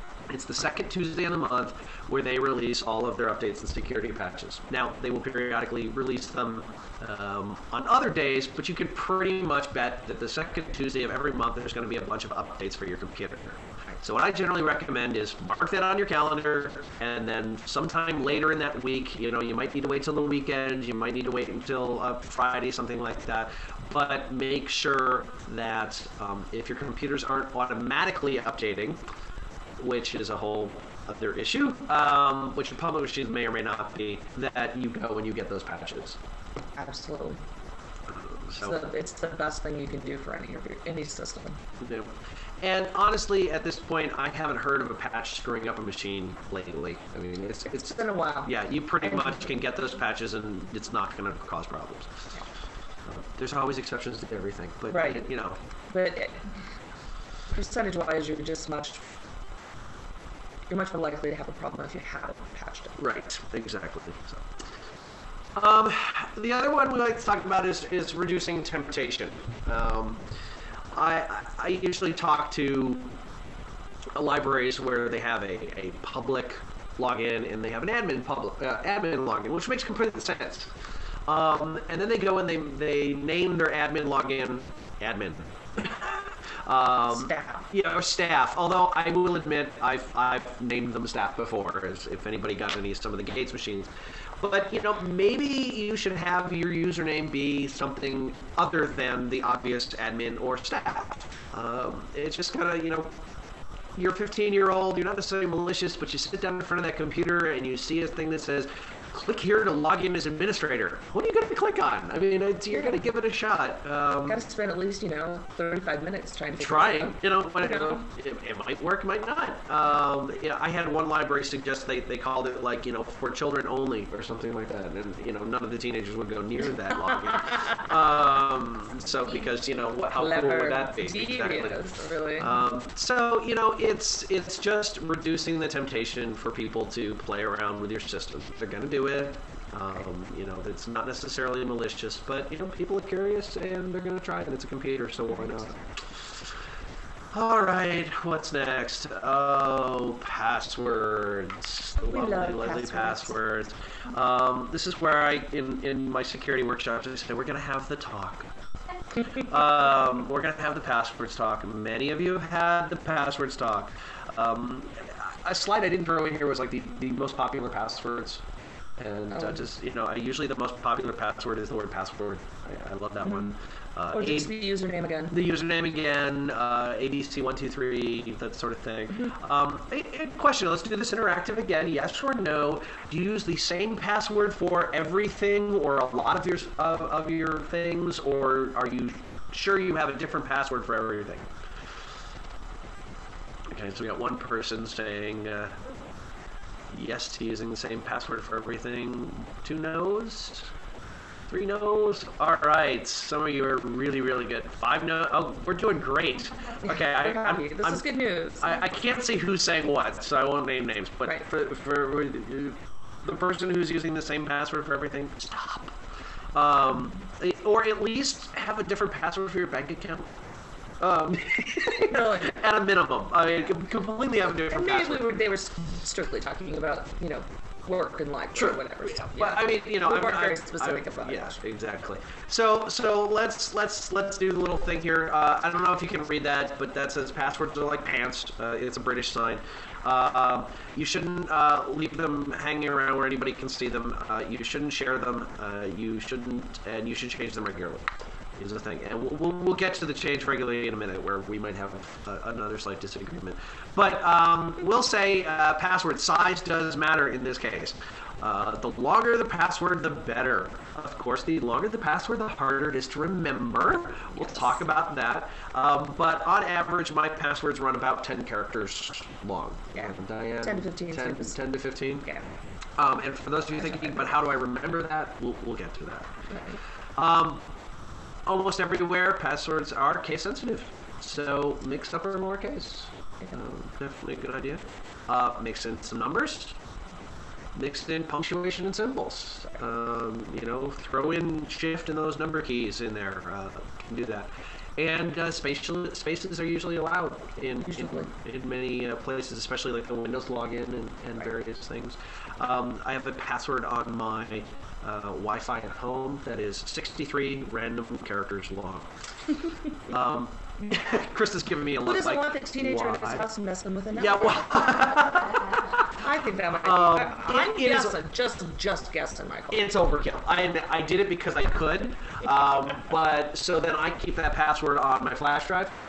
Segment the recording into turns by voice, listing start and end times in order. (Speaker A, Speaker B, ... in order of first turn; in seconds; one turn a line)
Speaker A: 0.3-29.0
Speaker A: 29.8-36.2
Speaker B: 36.8-37.4
Speaker A: 38.1-38.8
Speaker B: 38.6-41.6
Speaker A: 41.8-52.2
Speaker B: 47.7-49.5
Speaker A: 53.0-55.6
Speaker B: 54.9-55.2
Speaker B: 55.9-56.4
Speaker B: 57.5-59.0
Speaker B: 60.7-63.0
Speaker A: 63.0-64.5
Speaker A: 65.5-70.2
Speaker A: 70.9-73.2
Speaker A: 74.1-80.7
Speaker A: 81.3-103.1
Speaker B: 87.1-87.7
Speaker A: 103.9-114.4
Speaker B: 112.7-113.0
Speaker B: 114.2-118.1
Speaker A: 116.5-145.8
Speaker B: 130.1-132.6
Speaker B: 145.3-145.7
Speaker A: 147.3-158.5
Speaker B: 152.0-153.4
Speaker A: 159.3-168.4
Speaker A: 169.0-174.7
Speaker B: 169.3-169.6
Speaker B: 174.1-175.3
Speaker A: 175.3-191.5
Speaker A: 193.7-195.8
Speaker A: 196.9-200.7
Speaker A: 201.5-208.0
Speaker B: 206.8-208.8
Speaker A: 208.6-215.9
Speaker A: 216.5-220.3
Speaker A: 221.0-225.3
Speaker B: 221.8-222.5
Speaker B: 224.7-231.6
Speaker A: 228.5-272.3
Speaker B: 264.4-264.8
Speaker B: 269.9-271.6
Speaker A: 273.0-276.3
Speaker B: 273.8-274.2
Speaker B: 276.5-276.8
Speaker A: 277.1-277.6
Speaker A: 278.4-286.8
Speaker A: 287.7-309.1
Speaker B: 297.8-298.3
Speaker A: 310.1-313.5
Speaker B: 312.0-315.5
Speaker A: 314.1-316.2
Speaker B: 316.1-319.9
Speaker A: 316.8-318.2
Speaker A: 319.7-325.9